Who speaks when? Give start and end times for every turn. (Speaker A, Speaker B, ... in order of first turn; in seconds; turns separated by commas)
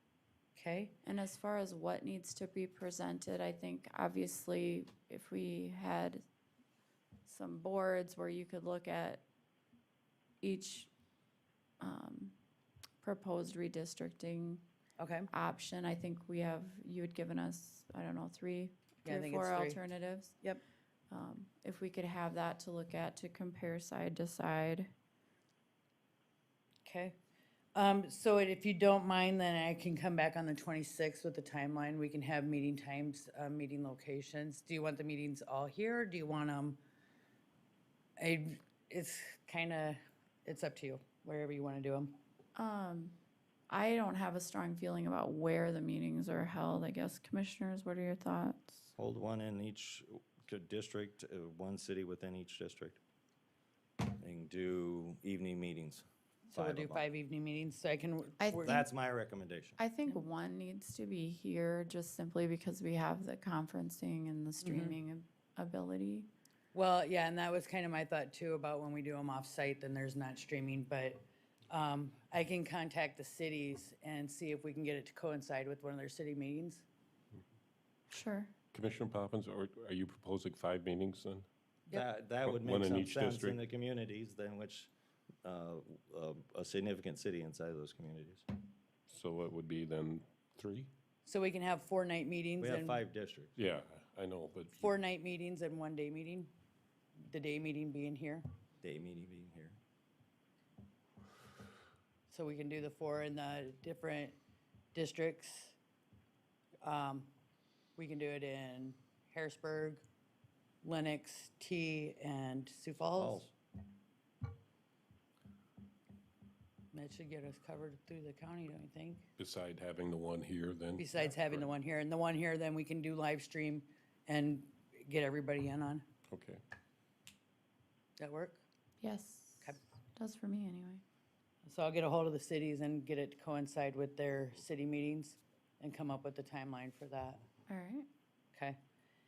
Speaker A: 0.5-0.9, Speaker B: 1.0-6.2, Speaker B: 7.2-9.2, Speaker B: 10.4-10.9, Speaker B: 11.8-12.3, Speaker B: 13.0-14.7, Speaker A: 15.0-15.3, Speaker B: 15.3-20.4, Speaker A: 19.0-19.8, Speaker B: 21.1-24.9, Speaker A: 26.8-27.1, Speaker A: 27.7-36.8, Speaker A: 38.2-42.1, Speaker B: 42.5-43.1, Speaker B: 43.7-48.9, Speaker C: 49.0-53.0, Speaker C: 54.0-57.1, Speaker A: 56.5-58.8, Speaker B: 58.4-58.8, Speaker C: 58.6-59.8, Speaker B: 59.8-66.3, Speaker A: 64.6-65.0, Speaker A: 66.7-76.8, Speaker B: 78.1-78.5, Speaker D: 78.7-81.5, Speaker C: 81.9-84.9, Speaker D: 82.4-83.5, Speaker C: 85.4-88.4, Speaker D: 89.1-90.9, Speaker A: 91.2-93.0, Speaker C: 92.6-93.5, Speaker D: 93.6-94.9, Speaker A: 94.8-96.5, Speaker A: 97.2-98.4, Speaker C: 98.8-99.8, Speaker A: 102.3-104.3, Speaker A: 104.9-105.8, Speaker A: 106.8-107.3, Speaker A: 108.0-110.0, Speaker A: 110.8-113.5, Speaker C: 113.2-113.5, Speaker A: 116.9-119.3, Speaker D: 119.4-121.7, Speaker A: 121.0-126.0, Speaker D: 126.3-126.6, Speaker A: 128.2-128.6, Speaker B: 129.0-131.0, Speaker A: 131.7-137.4, Speaker B: 137.7-138.1